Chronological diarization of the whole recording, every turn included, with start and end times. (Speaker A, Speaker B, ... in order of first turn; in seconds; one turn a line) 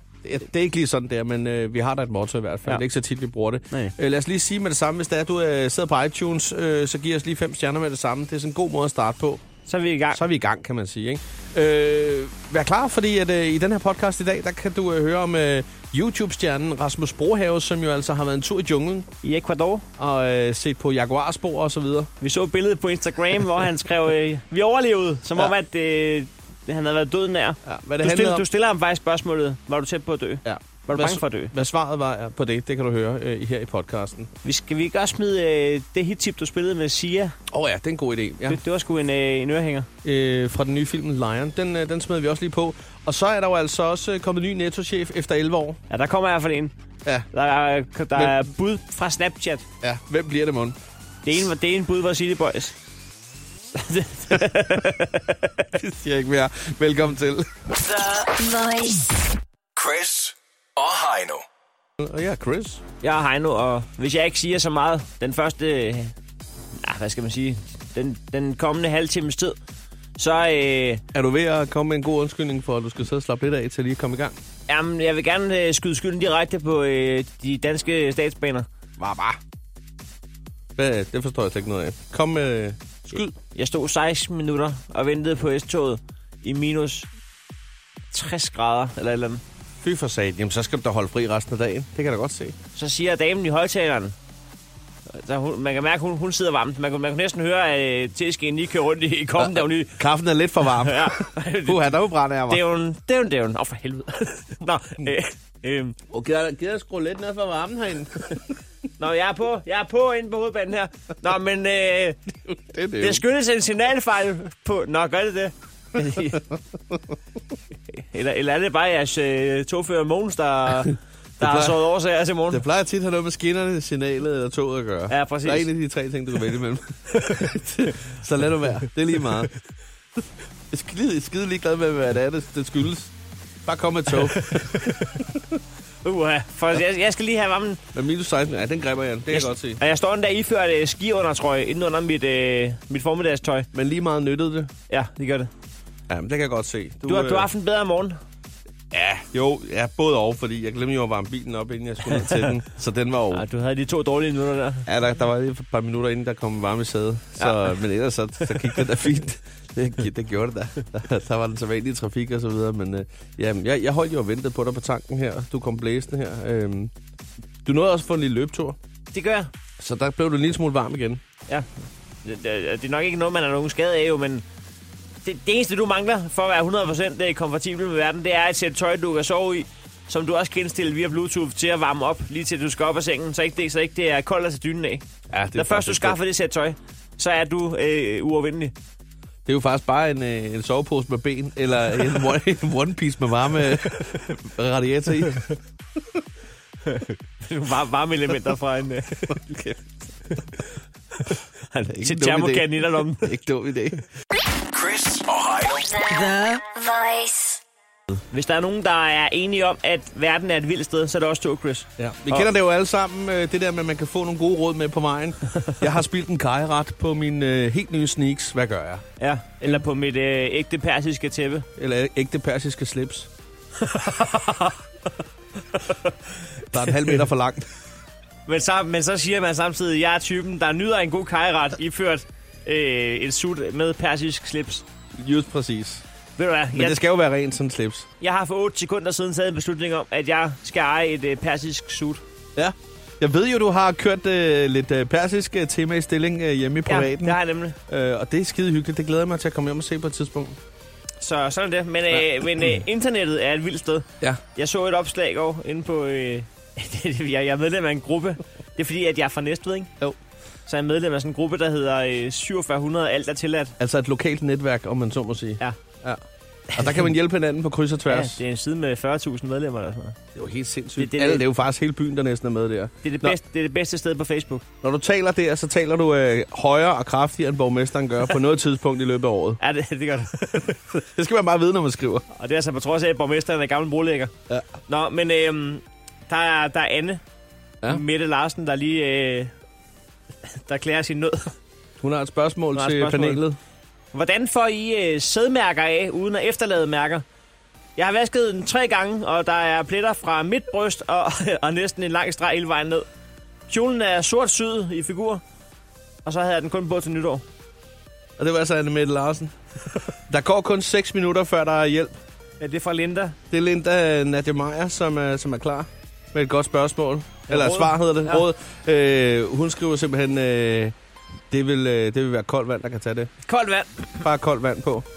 Speaker A: 0.2-9.4
Speaker B: 9.7-10.2
Speaker A: 10.1-19.1
Speaker B: 19.2-19.9
Speaker A: 20.0-22.1
Speaker B: 22.2-31.5
Speaker A: 27.6-28.4
Speaker A: 30.4-34.3
Speaker B: 34.4-37.3
Speaker A: 37.5-38.6
Speaker B: 38.5-39.9
Speaker A: 40.0-45.8
Speaker B: 45.9-46.7
Speaker B: 47.3-49.6
Speaker A: 49.8-50.8
Speaker B: 51.2-52.7
Speaker B: 53.7-55.6
Speaker A: 55.7-57.5
Speaker C: 57.8-59.2
Speaker D: 59.8-61.5
Speaker A: 62.0-62.8
Speaker B: 63.0-66.1
Speaker B: 66.8-69.6
Speaker B: 70.2-71.0
Speaker A: 71.1-74.3
Speaker B: 74.7-78.7
Speaker A: 79.0-79.4
Speaker A: 80.8-83.3
Speaker B: 83.5-87.1
Speaker B: 88.1-89.4
Speaker A: 89.8-92.5
Speaker B: 92.8-94.1
Speaker B: 95.1-100.0
Speaker A: 99.4-102.6
Speaker B: 100.8-106.0
Speaker A: 106.1-108.5
Speaker B: 109.0-112.2
Speaker A: 112.4-113.2
Speaker B: 113.0-116.4
Speaker A: 116.1-117.0
Speaker B: 117.9-122.6
Speaker A: 121.4-121.8
Speaker A: 122.5-129.5
Speaker B: 125.1-125.7
Speaker A: 130.7-133.1
Speaker A: 133.7-135.6
Speaker B: 134.3-135.2
Speaker B: 136.0-137.8
Speaker A: 137.9-139.8
Speaker B: 139.3-143.7
Speaker A: 143.7-144.7
Speaker B: 144.9-145.5
Speaker A: 146.1-147.5
Speaker B: 147.0-148.2
Speaker A: 148.9-153.4
Speaker B: 152.1-152.5
Speaker B: 153.3-154.9
Speaker A: 154.8-166.9
Speaker B: 157.4-157.7
Speaker B: 158.6-158.8
Speaker A: 167.6-168.8
Speaker B: 169.1-169.5
Speaker A: 169.8-171.2
Speaker B: 172.2-174.4
Speaker B: 175.2-188.7
Speaker A: 185.3-186.2
Speaker A: 189.4-195.5
Speaker B: 196.8-199.4
Speaker A: 199.2-200.4
Speaker A: 201.7-204.0
Speaker B: 202.0-203.3
Speaker D: 204.7-206.0
Speaker C: 205.9-207.6
Speaker B: 208.3-212.5
Speaker A: 212.0-219.0
Speaker B: 219.2-221.7
Speaker A: 221.8-223.3
Speaker B: 223.8-224.8
Speaker B: 225.7-227.2
Speaker A: 226.7-227.7
Speaker B: 228.4-234.8
Speaker A: 235.1-236.0
Speaker B: 236.4-237.0
Speaker A: 236.7-238.1
Speaker B: 238.2-242.2
Speaker A: 242.6-250.6
Speaker B: 246.9-247.8
Speaker B: 251.2-259.9
Speaker A: 252.1-252.8
Speaker B: 260.7-263.7
Speaker A: 263.8-266.2
Speaker B: 266.7-267.1
Speaker A: 266.7-268.4
Speaker B: 268.1-270.2
Speaker A: 270.3-273.3
Speaker B: 271.0-271.4
Speaker B: 273.0-274.6
Speaker A: 274.8-279.6
Speaker B: 279.6-280.7
Speaker A: 280.4-282.2
Speaker B: 282.3-284.3
Speaker B: 284.9-287.2
Speaker B: 287.9-289.5
Speaker B: 290.5-291.5
Speaker A: 292.0-293.6
Speaker B: 292.7-293.4
Speaker B: 294.1-297.2
Speaker B: 298.0-303.1
Speaker B: 303.7-305.4
Speaker B: 306.2-307.4
Speaker A: 308.4-309.6
Speaker A: 310.3-312.2
Speaker B: 312.6-313.4
Speaker A: 313.5-320.9
Speaker B: 317.5-318.4
Speaker A: 321.5-323.3
Speaker B: 323.4-324.1
Speaker A: 324.2-325.1